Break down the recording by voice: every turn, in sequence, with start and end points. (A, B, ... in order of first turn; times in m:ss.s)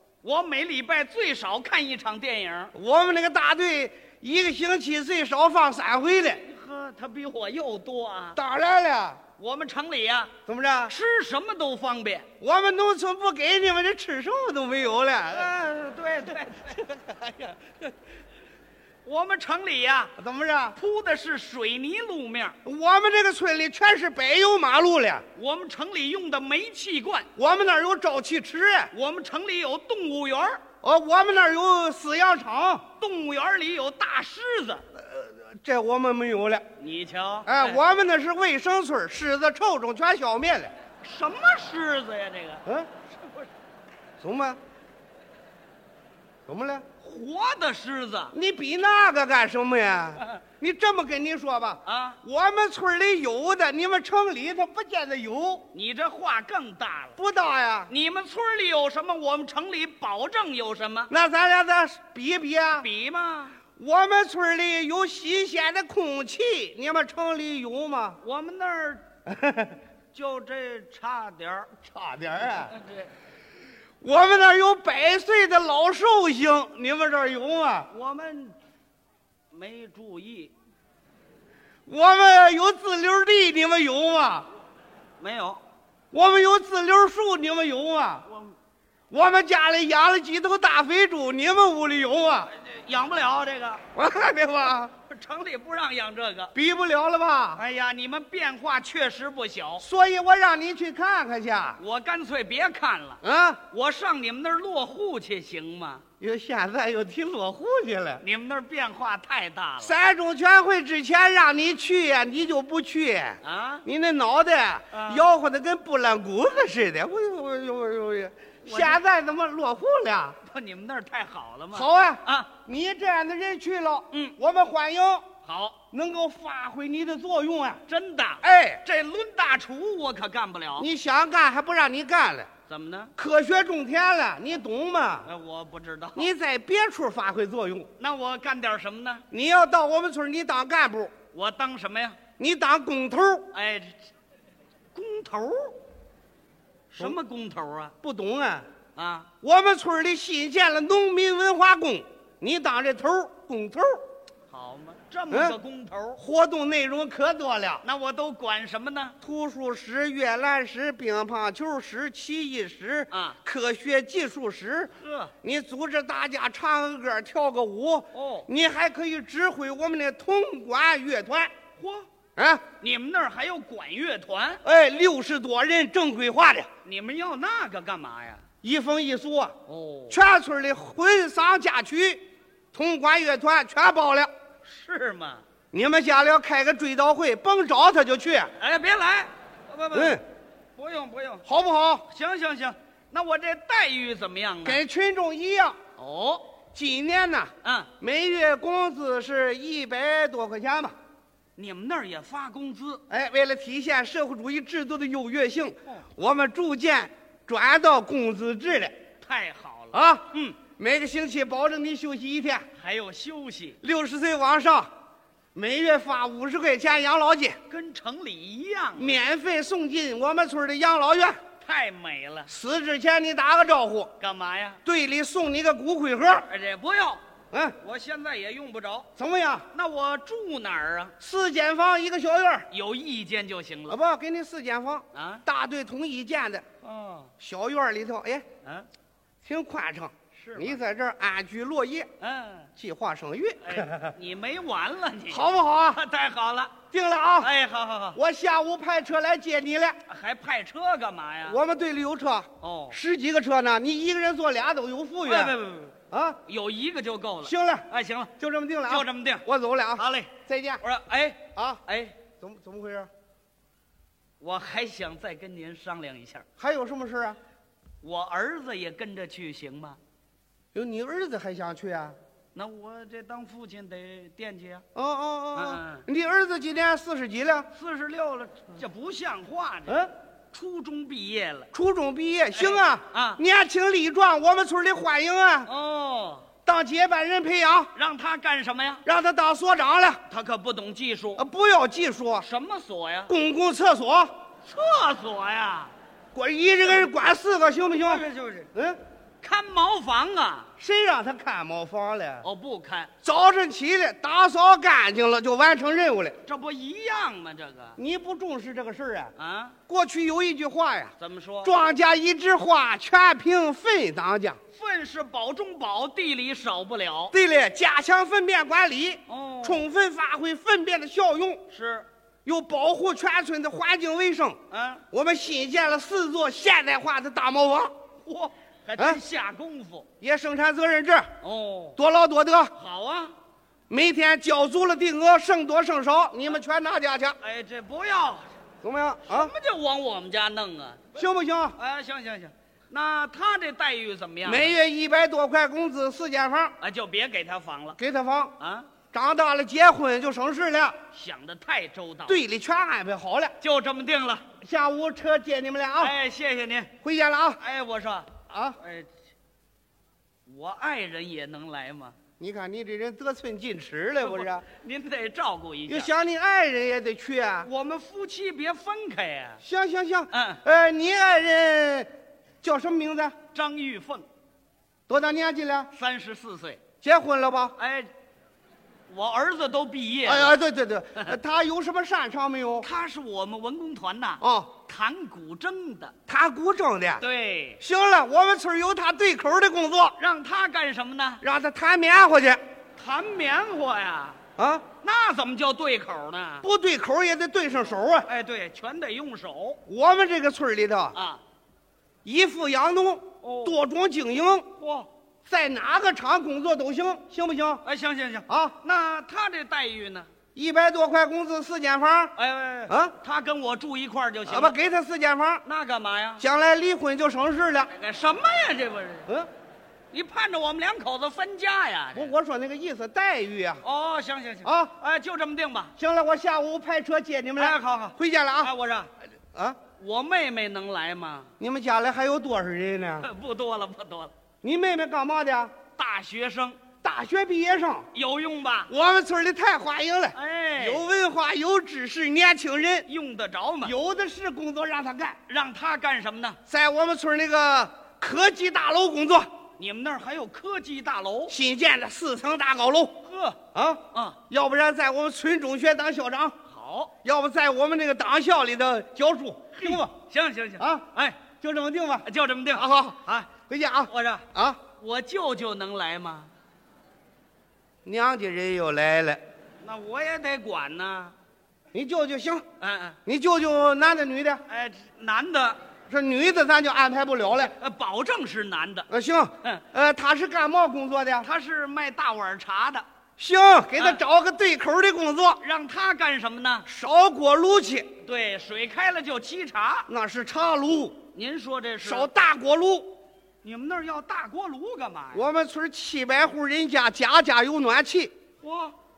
0:00.2-0:02.7 A
0:02.7-0:06.4 B
0:06.4-0:08.4 A
0:08.4-0:09.2 B
0:09.4-0:10.3 A
0:10.5-0:10.9 B
0:10.9-0:12.3 A
0:12.4-0:15.5 B
0:15.3-0:16.9 A
0:17.0-0:17.3 B
0:19.0-0:20.1 A
0:20.2-0:20.8 B
0:20.8-0:22.6 A
0:22.6-0:25.2 B
0:25.4-0:27.3 A
0:27.4-0:28.9 B
0:28.9-0:30.6 A
0:30.8-0:32.8 B
0:33.0-0:34.8 A
0:35.0-0:36.6 B
0:36.8-0:37.8 A
0:37.5-0:40.7 B
0:41.0-0:43.5 A
0:44.2-0:44.6 B
0:46.5-0:46.9 B
0:47.0-0:48.3 A
0:48.3-0:55.7 B
0:51.8-0:52.2 A
0:55.7-0:57.2 A
0:57.2-0:57.9 B
0:57.9-1:01.1 A
1:01.1-1:02.9 B
1:02.8-1:03.6 A
1:03.8-1:08.2 B
1:08.2-1:09.0 A
1:09.3-1:09.8 B
1:10.1-1:11.7 A
1:11.8-1:12.7 B
1:12.5-1:13.1 A
1:14.0-1:17.9 B
1:17.9-1:18.6 A
1:19.5-1:20.5 A
1:21.9-1:24.5 B
1:25.2-1:25.6 A
1:26.1-1:28.2 B
1:28.3-1:28.6 A
1:29.1-1:32.5 B
1:32.5-1:33.8 A
1:34.0-1:34.9 B
1:35.0-1:36.5 A
1:36.6-1:37.6 B
1:37.6-1:39.8 A
1:39.8-1:41.8 B
1:41.8-1:46.0 A
1:43.2-1:43.6 B
1:46.2-1:48.2 B
1:48.2-1:50.0 A
1:49.8-2:00.4 B
1:53.4-1:53.8 A
1:54.9-1:55.2 A
1:58.6-1:59.0 A
2:00.5-2:02.5 A
2:01.7-2:05.3 B
2:04.1-2:04.4 A
2:05.4-2:05.8 A
2:05.9-2:07.8 B
2:07.9-2:10.9 A
2:08.4-2:08.8 B
2:10.8-2:12.5 B
2:12.7-2:13.1 A
2:13.2-2:15.3 B
2:15.2-2:16.3 A
2:16.2-2:17.9 B
2:18.0-2:19.2 A
2:19.3-2:21.1 B
2:21.3-2:22.2 A
2:22.4-2:23.5 B
2:23.5-2:24.0 A
2:24.9-2:25.8 A
2:26.9-2:27.9 A
2:28.0-2:28.7 B
2:29.0-2:29.3 A
2:29.4-2:34.0 B
2:34.5-2:36.2 A
2:35.3-2:35.6 B
2:36.2-2:37.8 B
2:37.8-2:39.2 A
2:39.2-2:44.9 B
2:43.1-2:43.4 A
2:45.0-2:45.3 A
2:45.4-2:51.5 B
2:48.1-2:48.5 A
2:51.8-2:52.1 A
2:52.4-2:52.6 B
2:52.8-2:54.6 A
2:54.6-2:56.7 B
2:56.8-2:58.4 A
2:58.6-2:59.6 B
2:59.7-3:00.2 A
3:00.1-3:02.2 B
3:02.7-3:04.3 B
3:04.6-3:05.4 A
3:05.7-3:08.5 B
3:08.6-3:10.2 A
3:09.9-3:10.2 B
3:10.8-3:11.4 A
3:11.5-3:12.0 B
3:12.1-3:14.8 A
3:14.6-3:15.8 B
3:16.0-3:16.5 A
3:16.8-3:21.0 B
3:17.6-3:17.9 A
3:21.6-3:23.0 A
3:23.1-3:29.0 B
3:29.2-3:30.6 A
3:29.9-3:32.6 B
3:32.8-3:33.8 A
3:33.8-3:34.9 B
3:35.6-3:37.6 B
3:37.7-3:39.1 A
3:39.0-3:41.4 B
3:41.6-3:42.5 A
3:42.5-3:44.1 B
3:44.2-3:44.8 A
3:44.8-3:46.5 B
3:46.4-3:47.2 A
3:47.5-3:47.8 B
3:47.8-3:49.1 A
3:49.2-3:49.7 B
3:49.7-3:51.1 A
3:51.2-3:52.7 B
3:52.7-3:54.0 A
3:53.9-3:56.6 B
3:55.1-3:55.4 A
3:56.8-3:57.3 A
3:57.4-3:58.4 B
3:59.4-4:02.1 B
4:00.3-4:00.8 A
4:02.2-4:02.7 A
4:02.8-4:04.1 B
4:03.6-4:06.7 A
4:05.3-4:06.0 B
4:06.9-4:07.5 B
4:07.4-4:08.2 A
4:08.2-4:10.0 B
4:10.1-4:11.6 A
4:11.4-4:15.6 B
4:12.6-4:13.0 A
4:15.2-4:15.9 A
4:16.1-4:16.4 B
4:16.5-4:18.3 A
4:17.4-4:17.9 B
4:18.4-4:20.8 B
4:18.9-4:19.4 A
4:20.0-4:22.2 A
4:21.6-4:21.8 B
4:22.4-4:23.1 B
4:24.4-4:26.5 A
4:26.6-4:27.4 B
4:28.0-4:30.0 A
4:30.7-4:32.2 B
4:32.5-4:34.8 A
4:35.0-4:37.7 B
4:35.6-4:36.0 A
4:37.7-4:41.7 A
4:41.7-4:45.7 B
4:42.5-4:43.4 A
4:45.6-4:46.5 A
4:46.7-4:47.9 B
4:47.9-4:49.0 A
4:49.0-4:50.2 B
4:50.3-4:51.4 A
4:51.4-4:52.5 B
4:52.4-4:53.3 A
4:53.3-4:54.3 B
4:54.6-4:55.9 A
4:56.4-4:58.2 B
4:57.9-4:58.7 A
4:59.4-5:00.7 A
5:00.8-5:02.4 B
5:02.4-5:03.1 A
5:03.2-5:06.4 B
5:06.5-5:08.0 A
5:08.0-5:09.3 B
5:09.4-5:09.8 A
5:09.9-5:14.6 B
5:11.2-5:11.8 A
5:14.7-5:17.3 A
5:17.3-5:21.6 B
5:19.3-5:19.8 A
5:21.7-5:22.1 A
5:22.4-5:24.6 B
5:24.7-5:25.0 A
5:25.1-5:27.9 B
5:28.2-5:30.1 A
5:30.2-5:31.3 B
5:31.4-5:32.0 A
5:32.0-5:32.7 B
5:32.8-5:33.3 A
5:33.9-5:37.4 B
5:37.4-5:38.5 A
5:38.8-5:39.5 B
5:39.3-5:41.1 A
5:41.2-5:41.8 B
5:41.8-5:44.7 A
5:44.4-5:46.7 B
5:46.8-5:48.0 A
5:48.0-5:48.5 B
5:48.6-5:48.9 A
5:49.1-5:51.0 B
5:51.1-5:52.4 A
5:52.3-5:53.6 B
5:53.6-5:54.5 A
5:54.6-5:56.2 B
5:56.0-5:56.9 A
5:57.0-5:57.6 B
5:57.6-5:59.1 A
5:58.5-5:58.8 B
6:00.5-6:02.2 A
6:02.4-6:04.6 B
6:04.2-6:06.1 A
6:05.9-6:07.7 B
6:07.6-6:09.6 A
6:09.6-6:12.1 B
6:10.3-6:10.6 A
6:12.6-6:13.4 B
6:13.5-6:14.3 A
6:15.1-6:15.9 B
6:15.9-6:16.8 A
6:17.0-6:17.8 B
6:17.8-6:18.1 A
6:19.1-6:20.6 A
6:20.2-6:22.9 B
6:22.8-6:26.1 A
6:24.4-6:24.7 B
6:26.3-6:27.2 B
6:27.2-6:27.8 A
6:27.8-6:30.2 B
6:30.2-6:31.4 A
6:31.4-6:32.6 B
6:33.0-6:34.4 A
6:34.6-6:34.8 B
6:35.0-6:36.7 A
6:36.6-6:38.3 B
6:38.2-6:39.8 A
6:39.9-6:41.2 B
6:41.1-6:41.4 A
6:42.2-6:44.7 B
6:43.4-6:43.8 A
6:44.8-6:45.1 A
6:45.4-6:47.8 B
6:47.8-6:50.3 A
6:48.5-6:48.8 B
6:50.6-6:52.3 B
6:52.4-6:54.8 A
6:52.9-6:53.1 B
6:54.5-6:55.6 B
6:55.6-6:56.4 A
6:56.4-6:57.9 B
6:57.9-6:59.3 A
7:00.1-7:02.3 A
7:02.2-7:03.8 B
7:03.8-7:05.9 A
7:04.6-7:04.9 B
7:06.0-7:08.7 B
7:07.6-7:09.1 A
7:10.0-7:11.5 A
7:11.6-7:13.3 B
7:13.2-7:14.3 A
7:14.6-7:15.7 B
7:16.0-7:16.8 A
7:17.0-7:18.1 B
7:18.1-7:18.9 A
7:18.9-7:23.1 B
7:20.3-7:21.0 A
7:23.1-7:23.9 A
7:23.8-7:25.4 B
7:25.5-7:26.6 A
7:26.7-7:29.5 B
7:29.8-7:31.6 A
7:31.5-7:33.2 B
7:33.2-7:33.6 A
7:33.7-7:36.6 B
7:34.1-7:34.4 A
7:36.7-7:37.1 A
7:37.2-7:40.1 B
7:39.7-7:41.4 A
7:40.8-7:44.8 B
7:42.2-7:43.5 A
7:44.1-7:44.5 A
7:45.0-7:46.5 A
7:48.0-7:49.4 B
7:49.8-7:51.4 A
7:51.9-7:52.6 B
7:52.8-7:53.2 A
7:53.3-7:54.6 B
7:54.7-7:55.8 A
7:56.1-7:57.7 B
7:57.6-7:59.1 A
7:59.1-8:01.5 B
8:01.4-8:03.0 A
8:03.4-8:05.6 B
8:04.0-8:04.2 A
8:05.6-8:06.9 A
8:06.9-8:08.1 B
8:08.2-8:10.1 A
8:10.1-8:11.2 B
8:11.3-8:12.3 A
8:12.0-8:13.1 B
8:13.6-8:15.5 A
8:15.3-8:18.3 B
8:18.6-8:19.0 A